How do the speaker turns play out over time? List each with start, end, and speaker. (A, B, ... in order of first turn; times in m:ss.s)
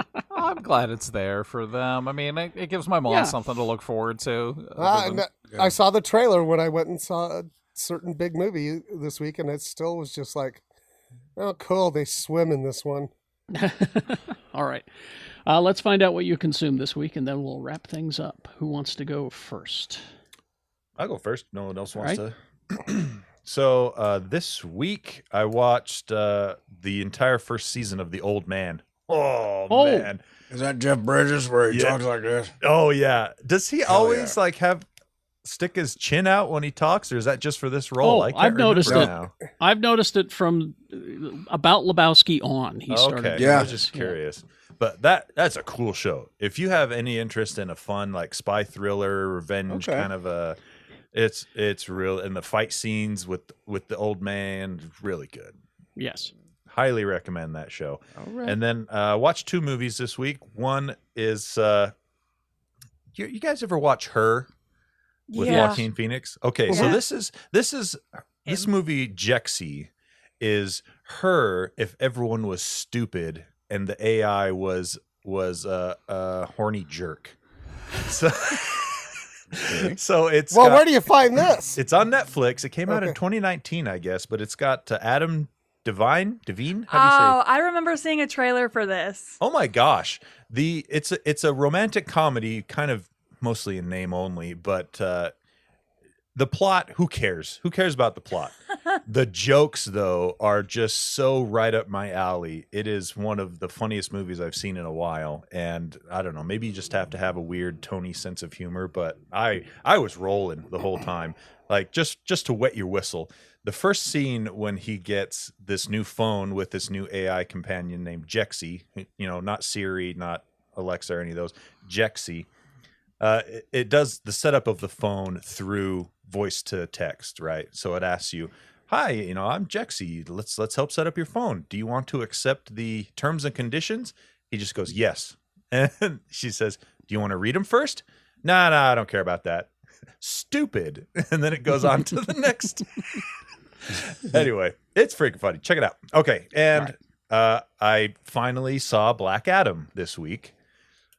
0:00.3-0:05.2 A
0:03.1-0:03.3 B
0:04.8-0:10.6 C
0:11.4-0:13.1 C
0:13.5-0:14.8 B
0:15.4-0:20.0 B
0:21.0-0:30.2 D
0:29.7-0:30.1 B
0:30.5-0:32.5 E
0:31.7-0:32.0 D
0:32.6-0:34.8 D
0:33.9-0:34.4 E
0:35.4-0:39.3 D
0:38.0-0:44.2 B
0:42.9-0:50.6 D
0:43.4-0:43.7 E
0:49.7-0:50.1 E
0:51.1-0:55.6 D
0:56.0-0:56.3 B
0:56.7-1:01.9 D
0:58.2-0:58.5 E
1:03.1-1:04.5 D
1:05.3-1:05.8 F
1:05.3-1:17.4 D
1:05.4-1:05.8 B
1:06.7-1:07.0 F
1:18.0-1:20.9 D
1:19.6-1:20.0 E
1:20.5-1:21.8 C
1:21.7-1:27.4 D
1:22.9-1:23.1 C
1:26.9-1:29.4 F
1:29.4-1:35.3 D
1:36.3-2:02.5 D
2:03.2-2:23.2 D
2:23.9-2:30.5 D